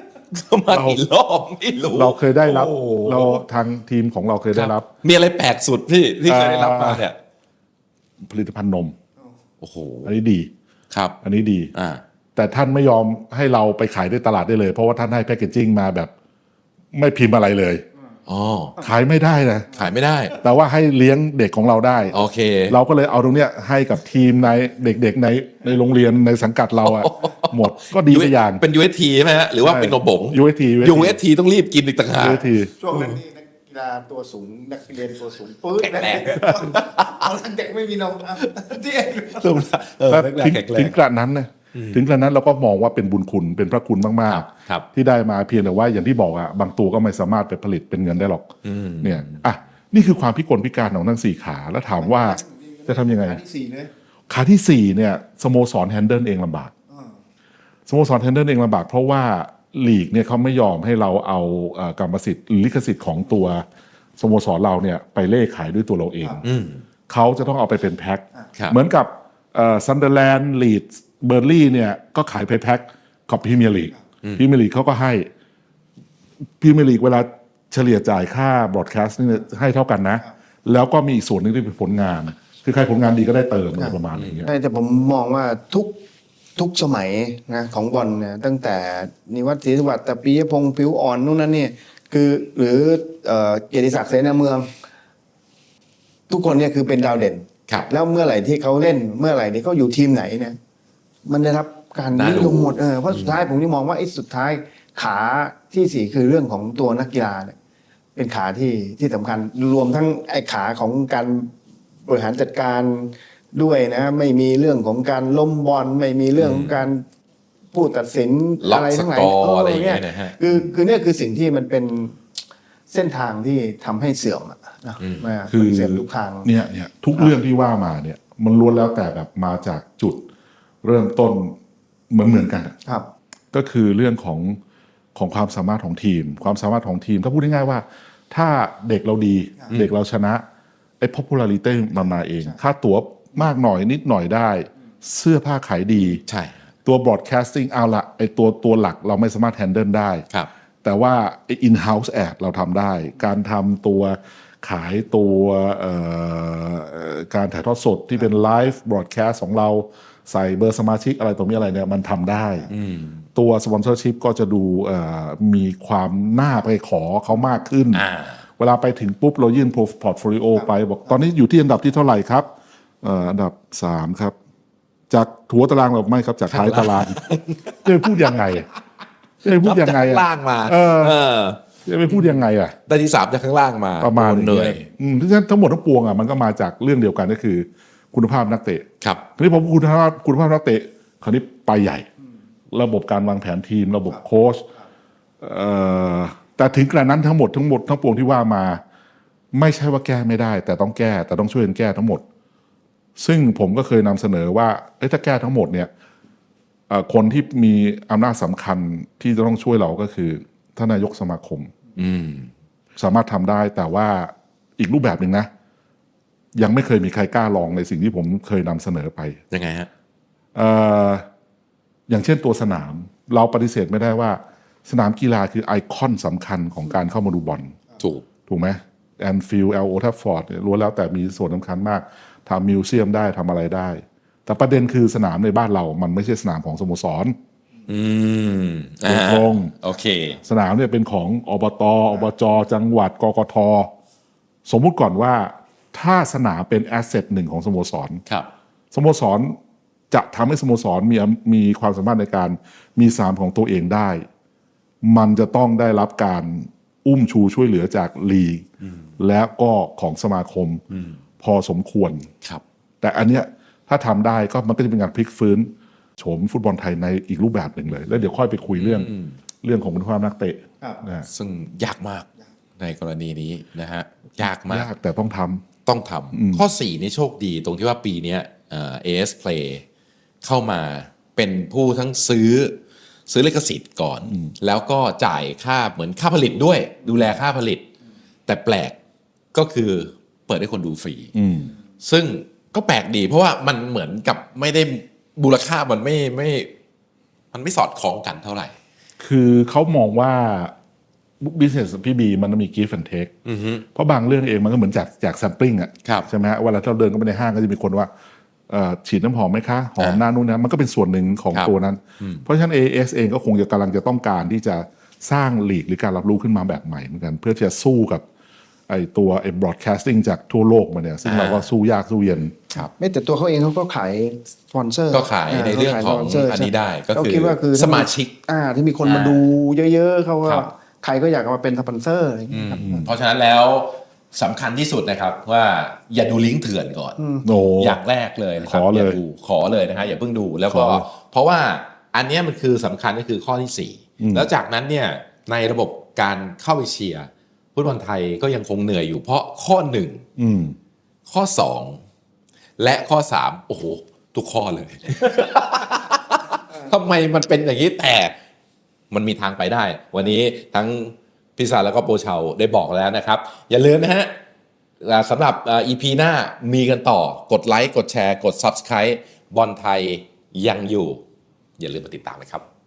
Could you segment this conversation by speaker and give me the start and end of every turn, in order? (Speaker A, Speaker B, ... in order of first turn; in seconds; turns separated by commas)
Speaker A: 0.3-3.4, Speaker B: 0.7-1.0, Speaker B: 1.9-4.9, Speaker A: 4.5-7.2, Speaker B: 6.3-7.1, Speaker B: 8.2-9.0, Speaker A: 9.6-10.1, Speaker B: 10.1-10.5, Speaker B: 11.2-11.7, Speaker A: 11.8-12.0, Speaker B: 12.3-16.1, Speaker B: 16.9-17.9, Speaker A: 18.3-18.8, Speaker B: 18.8-19.8, Speaker A: 19.8-20.4, Speaker B: 20.4-22.2, Speaker A: 22.1-22.8, Speaker B: 22.7-28.6, Speaker A: 26.9-33.1, Speaker B: 29.6-31.2, Speaker B: 32.2-32.7, Speaker C: 32.6-39.4, Speaker A: 35.8-37.1, Speaker A: 39.2-40.9, Speaker B: 40.1-48.5, Speaker A: 41.8-42.0, Speaker A: 44.3-44.9, Speaker A: 48.6-49.4, Speaker B: 49.0-53.4, Speaker C: 52.2-53.9, Speaker B: 54.3-56.7, Speaker B: 57.9-63.6, Speaker B: 64.2-66.4, Speaker A: 66.4-66.8, Speaker B: 67.1-75.3, Speaker B: 76.6-84.5, Speaker C: 83.8-86.0, Speaker A: 84.1-84.5, Speaker C: 86.6-94.7, Speaker C: 96.3-100.6, Speaker C: 101.3-107.6, Speaker A: 102.1-103.5, Speaker C: 108.2-111.5, Speaker C: 112.1-117.1, Speaker A: 116.4-116.9, Speaker C: 117.7-122.2, Speaker A: 118.6-120.7, Speaker C: 122.9-126.5, Speaker A: 125.0-125.3, Speaker B: 125.5-130.3, Speaker B: 130.8-131.6, Speaker B: 132.1-132.8, Speaker B: 133.5-134.6, Speaker B: 135.2-140.4, Speaker B: 141.0-146.2, Speaker A: 146.3-146.7, Speaker B: 146.8-150.3, Speaker B: 150.8-162.7, Speaker A: 162.7-163.2, Speaker B: 163.3-168.0, Speaker A: 167.9-168.4, Speaker B: 168.6-172.5, Speaker B: 173.0-174.3, Speaker B: 175.1-177.2, Speaker A: 176.5-177.8, Speaker B: 177.8-178.7, Speaker B: 179.4-181.2, Speaker A: 179.5-181.6, Speaker B: 181.8-182.8, Speaker A: 182.9-184.9, Speaker B: 184.0-192.1, Speaker B: 192.7-194.7, Speaker B: 195.4-198.8, Speaker B: 199.5-202.2, Speaker B: 203.2-205.9, Speaker B: 206.9-211.7, Speaker A: 212.0-212.5, Speaker B: 213.0-215.5, Speaker B: 216.6-219.4, Speaker A: 219.5-219.9, Speaker B: 220.6-221.2, Speaker B: 222.1-227.8, Speaker A: 228.0-228.3, Speaker B: 228.5-237.4, Speaker A: 237.9-240.4, Speaker B: 239.1-239.7, Speaker B: 240.4-243.9, Speaker B: 244.7-248.2, Speaker B: 248.9-249.6, Speaker B: 250.1-254.3, Speaker B: 255.0-258.7, Speaker B: 259.2-260.8, Speaker A: 260.9-261.2, Speaker B: 261.4-262.3, Speaker B: 263.0-269.1, Speaker A: 268.8-269.4, Speaker B: 269.6-271.3, Speaker A: 271.3-272.3, Speaker A: 272.8-274.9, Speaker B: 274.7-275.7, Speaker A: 275.9-279.8, Speaker B: 276.3-276.6, Speaker A: 280.4-287.9, Speaker A: 288.5-289.0, Speaker A: 289.5-291.3, Speaker B: 291.4-291.7, Speaker A: 292.0-296.7, Speaker A: 297.5-298.7, Speaker B: 299.2-300.7, Speaker B: 301.4-303.4, Speaker A: 303.5-303.9, Speaker B: 303.9-308.1, Speaker B: 308.7-318.2, Speaker A: 311.5-312.4, Speaker B: 318.9-322.8, Speaker A: 321.2-321.7, Speaker C: 323.0-333.1, Speaker A: 325.1-328.3, Speaker A: 329.0-329.4, Speaker A: 332.5-337.2, Speaker C: 337.2-337.4, Speaker B: 337.4-338.0, Speaker A: 337.8-350.2, Speaker B: 338.6-339.2, Speaker B: 340.7-341.1, Speaker B: 344.2-344.5, Speaker B: 350.4-350.8, Speaker A: 351.3-352.0, Speaker A: 352.8-358.4, Speaker A: 359.1-364.3, Speaker A: 365.0-371.2, Speaker A: 371.8-372.6